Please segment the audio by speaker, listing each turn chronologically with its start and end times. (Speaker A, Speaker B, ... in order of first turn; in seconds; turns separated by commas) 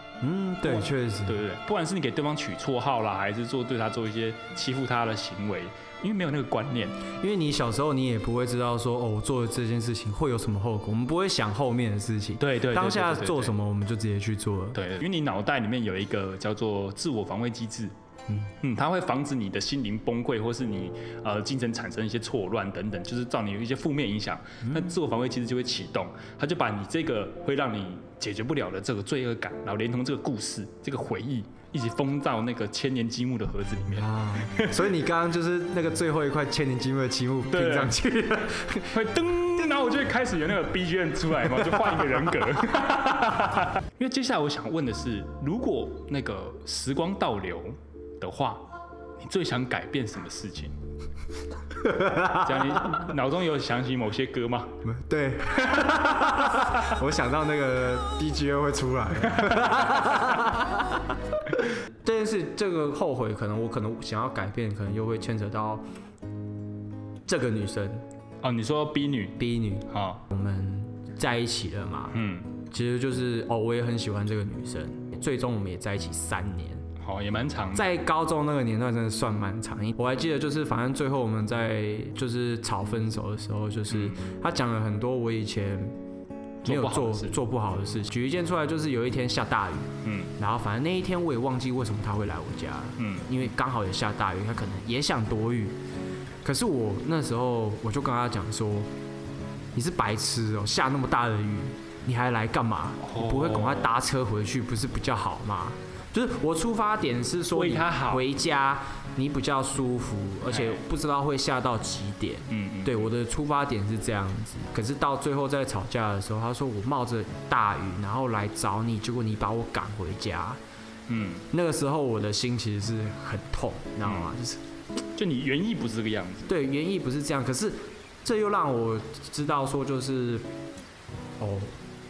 Speaker A: 0.2-1.4, Speaker B: 0.6-7.0, Speaker A: 7.2-14.8, Speaker B: 12.4-13.5, Speaker B: 14.7-17.9, Speaker B: 18.6-34.9, Speaker A: 24.6-24.9, Speaker A: 33.9-39.0, Speaker B: 37.5-38.0, Speaker B: 38.9-48.7, Speaker A: 41.5-42.2, Speaker B: 49.2-50.7, Speaker A: 51.8-53.0, Speaker B: 52.2-54.8, Speaker A: 54.8-65.8, Speaker B: 59.3-60.3, Speaker A: 67.2-68.0, Speaker B: 68.4-70.2, Speaker A: 69.4-76.8, Speaker B: 72.1-72.5, Speaker B: 77.0-77.9, Speaker A: 77.7-85.9, Speaker B: 83.9-84.2, Speaker B: 86.6-87.4, Speaker A: 86.7-95.8, Speaker B: 90.0-90.3, Speaker B: 93.0-93.4, Speaker A: 96.4-98.9, Speaker A: 99.7-120.6, Speaker B: 103.0-103.9, Speaker B: 107.5-108.2, Speaker B: 110.5-110.8, Speaker B: 112.5-113.1, Speaker B: 121.1-121.5, Speaker A: 121.5-124.6, Speaker B: 124.0-124.3, Speaker B: 125.1-126.5, Speaker A: 126.5-130.4, Speaker A: 131.4-131.8